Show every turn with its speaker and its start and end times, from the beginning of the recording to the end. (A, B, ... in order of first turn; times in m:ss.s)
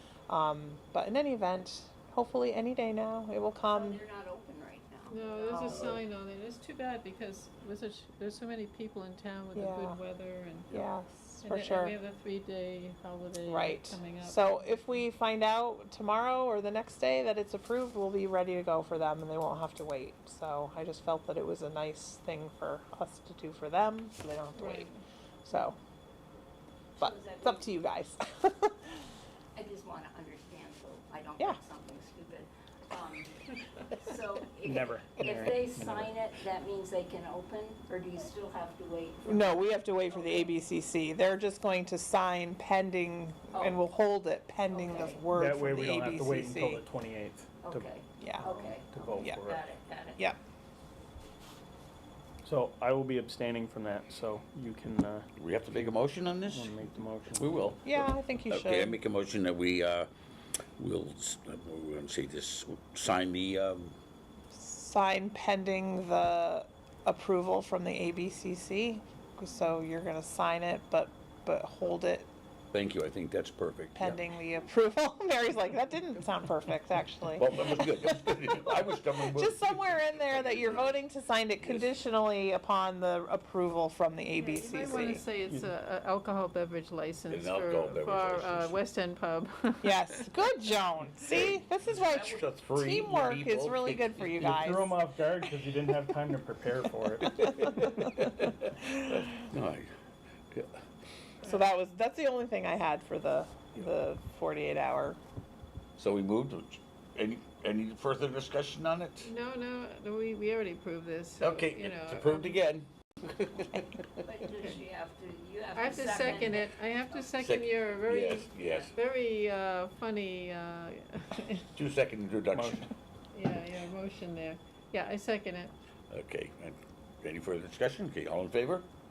0:00.3-0:04.0 A
0:03.7-0:06.0 B
0:05.1-0:10.8 C
0:05.6-0:06.0 D
0:09.6-0:10.0 A
0:10.7-0:11.9 A
0:11.4-0:14.8 C
0:13.4-0:24.9 A
0:24.6-0:25.0 C
0:25.4-0:25.8 A
0:27.0-0:27.7 B
0:27.0-0:28.8 A
0:29.6-0:40.5 B
0:34.6-0:36.1 E
0:39.3-0:46.8 A
0:43.5-0:43.8 B
0:44.7-0:45.3 B
0:45.3-0:49.6 E
0:47.6-0:50.2 B
0:48.2-0:48.6 A
0:52.4-0:57.8 E
0:55.4-0:56.8 D
0:57.3-1:00.1 D
0:57.8-0:59.0 A
1:00.8-1:04.0 D
1:04.5-1:12.3 A
1:12.7-1:14.2 D
1:14.0-1:25.2 A
1:17.4-1:21.0 D
1:21.6-1:22.0 D
1:24.4-1:30.3 C
1:25.4-1:25.7 E
1:27.3-1:28.8 D
1:29.8-1:35.0 A
1:31.3-1:34.6 D
1:34.4-1:37.7 E
1:37.5-1:39.9 D
1:40.5-1:40.8 D
1:41.4-1:45.2 A
1:46.0-1:49.3 D
1:49.2-1:52.6 C
1:51.4-1:54.1 D
1:54.3-1:56.6 B
1:55.7-2:01.7 C
1:57.2-1:58.9 D
1:58.7-1:58.9 B
2:01.8-2:02.9 D
2:02.5-2:02.9 E
2:03.3-2:05.7 C
2:06.1-2:08.9 D